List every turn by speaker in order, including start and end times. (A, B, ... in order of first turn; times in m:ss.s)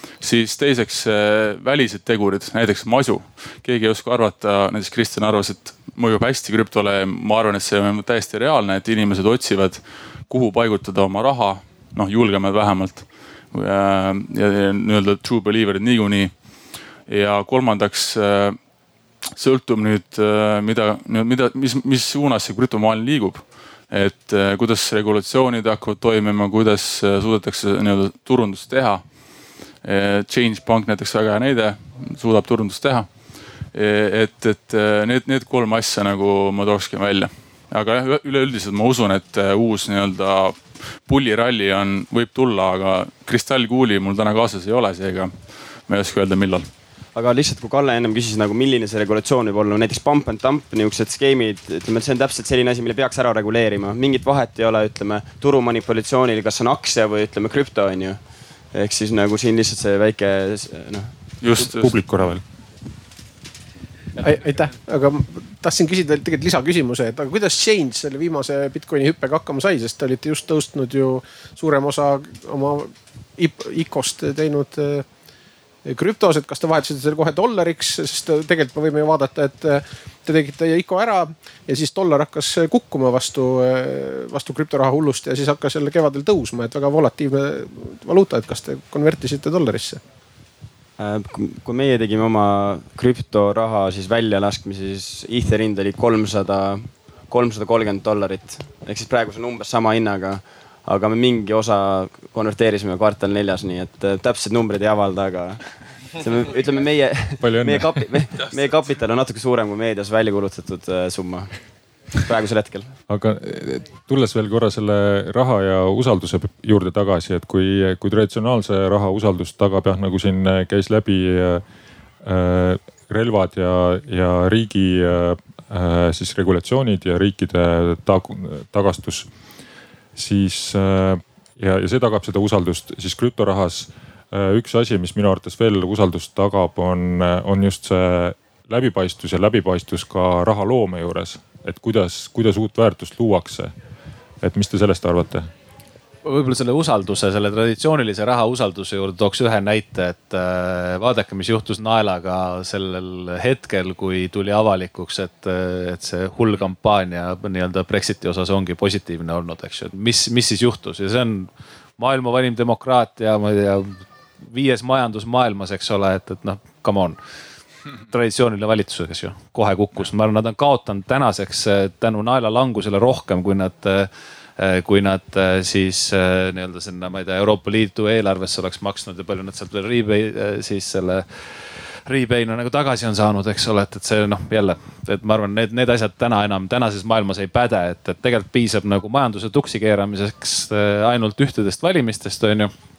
0:00.2-0:16.4 A
0:17.1-0:18.6 A
0:19.4-0:29.1 A
0:29.8-0:33.1 A
0:33.7-0:45.4 A
0:45.9-0:46.7 A
0:47.2-0:58.2 B
0:58.7-1:01.1 B
1:01.4-1:02.0 A
1:01.6-1:02.4 C
1:04.2-1:15.1 D
1:15.8-1:30.0 D
1:31.0-1:52.9 B
1:47.4-1:48.1 C
1:53.1-2:01.6 C
2:02.2-2:09.3 C
2:10.2-2:23.7 C
2:24.4-2:25.5 C
2:26.2-2:47.2 E
2:48.1-3:01.3 E
3:02.1-3:12.7 E